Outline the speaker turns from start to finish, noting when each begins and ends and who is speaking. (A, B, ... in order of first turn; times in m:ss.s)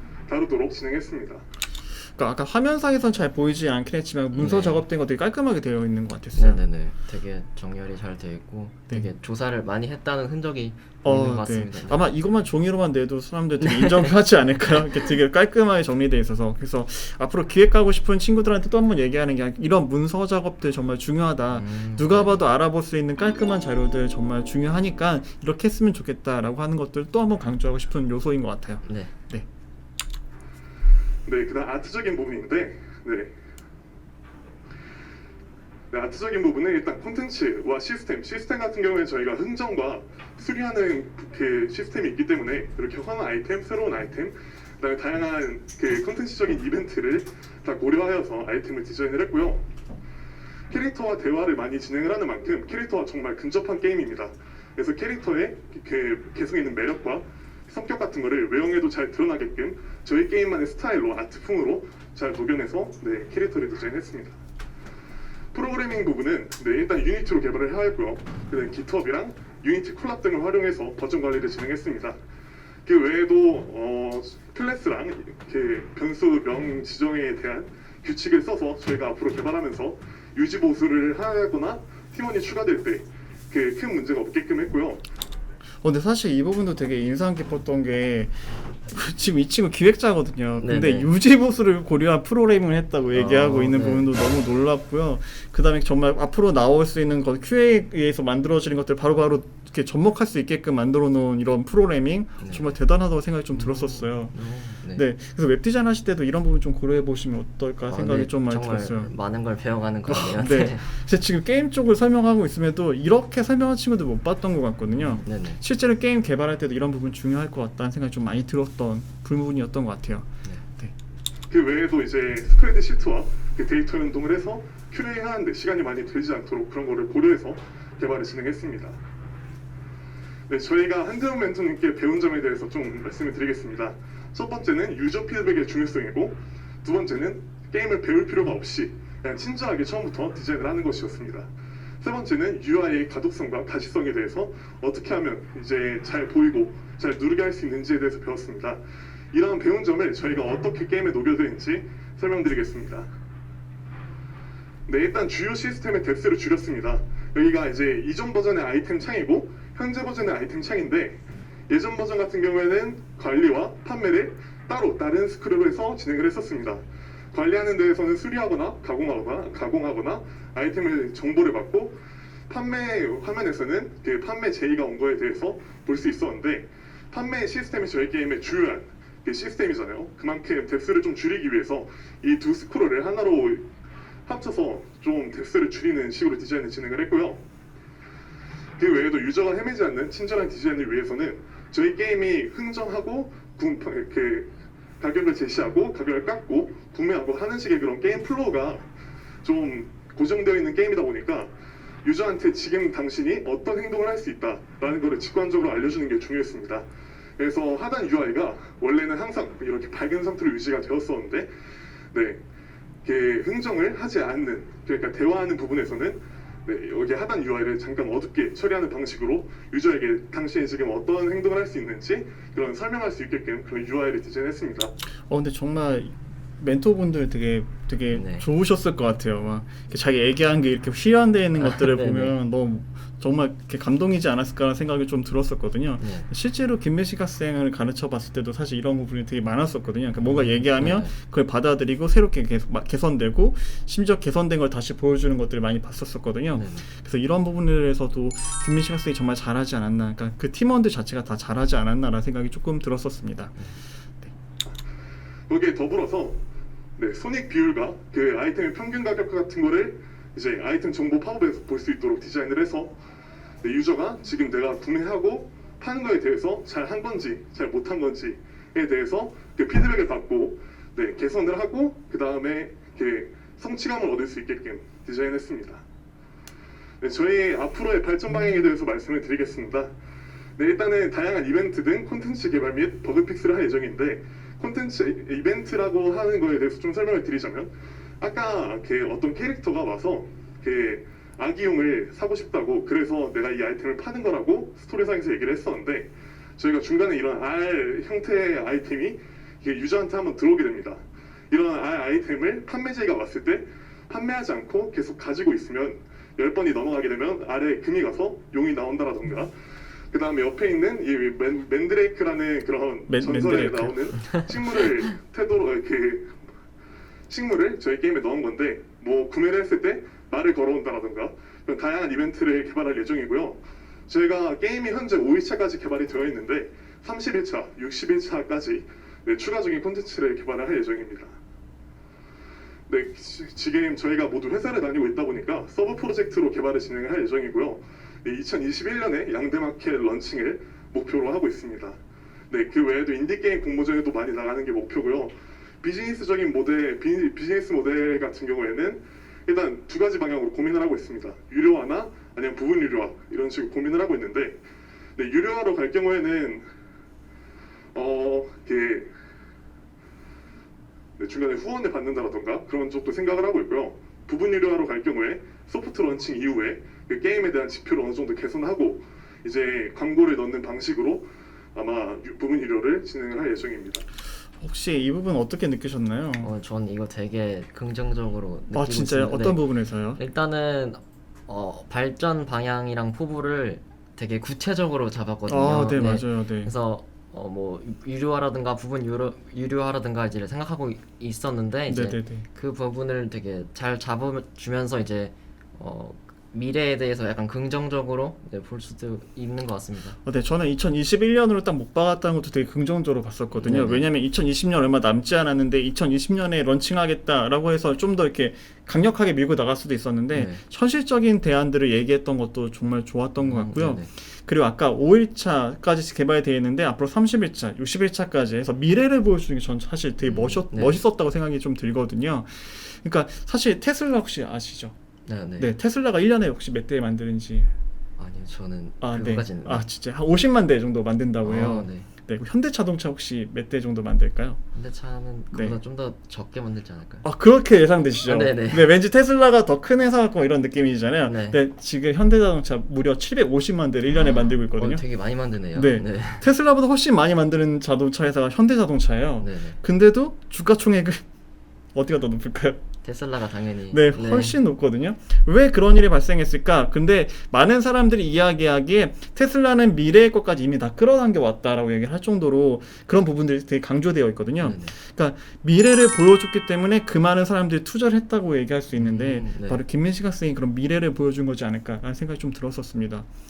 0:00.3-0:01.4 A
0:02.2-0:06.6 B
0:04.3-0:04.8 C
0:06.3-0:12.1 C
0:11.0-0:29.4 B
0:13.6-0:14.1 C
0:21.5-0:22.4 C
0:28.8-0:29.1 C
0:31.2-0:33.3 A
0:35.9-0:49.6 A
0:50.7-1:04.4 A
1:05.5-1:12.2 A
1:12.8-1:25.0 A
1:25.8-1:28.3 B
1:28.8-1:44.4 B
1:30.6-1:31.1 C
1:33.1-1:34.1 C
1:42.4-1:42.8 C
1:43.5-1:45.0 C
1:44.9-1:49.1 B
1:47.9-1:50.9 C
1:50.1-2:00.9 B
1:54.9-1:55.6 C
2:01.5-2:09.0 A
2:10.5-2:21.5 A
2:22.0-2:28.8 A
2:29.3-2:33.1 A
2:34.9-2:52.0 A
2:52.5-3:03.6 A
3:04.2-3:07.4 A
3:08.8-3:14.5 A
3:15.0-3:18.8 A
3:19.4-3:21.5 A
3:22.0-3:26.8 A
3:27.4-3:31.5 A
3:32.1-3:32.4 A
3:33.0-3:44.9 A
3:45.3-4:13.6 B
3:48.1-3:48.5 C
3:51.6-3:52.4 C
3:56.0-3:56.3 C
4:00.2-4:01.1 C
4:06.6-4:06.8 C
4:15.5-4:16.4 A
4:17.0-4:22.9 A
4:23.6-4:35.8 A
4:37.0-4:39.9 A
4:40.6-5:09.5 A
5:10.1-5:16.3 A
5:13.1-5:14.0 B
5:17.3-5:31.4 A
5:32.9-5:42.0 A
5:42.5-5:54.6 A
5:55.2-5:56.6 A
5:57.9-5:59.1 A
6:01.2-6:14.0 A
6:14.6-6:16.5 B
6:16.4-6:40.2 C
6:18.7-6:20.2 B
6:25.5-6:26.7 B
6:31.9-6:32.5 B
6:40.2-7:04.9 B
6:43.5-6:44.1 C
6:50.3-6:50.6 C
6:53.4-6:54.1 C
7:00.2-7:01.0 C
7:05.2-7:05.7 C
7:05.6-7:07.7 B
7:08.2-7:09.9 C
7:09.0-7:14.6 B
7:11.4-7:12.1 C
7:14.7-7:17.3 C
7:15.5-7:15.8 B
7:17.2-7:25.0 B
7:18.2-7:18.9 C
7:21.2-7:21.6 C
7:24.2-7:26.5 C
7:25.7-7:31.2 B
7:29.4-7:29.8 C
7:31.9-7:32.8 B
7:33.0-7:34.6 C
7:33.9-7:53.3 B
7:44.6-7:44.9 C
7:48.9-7:49.8 C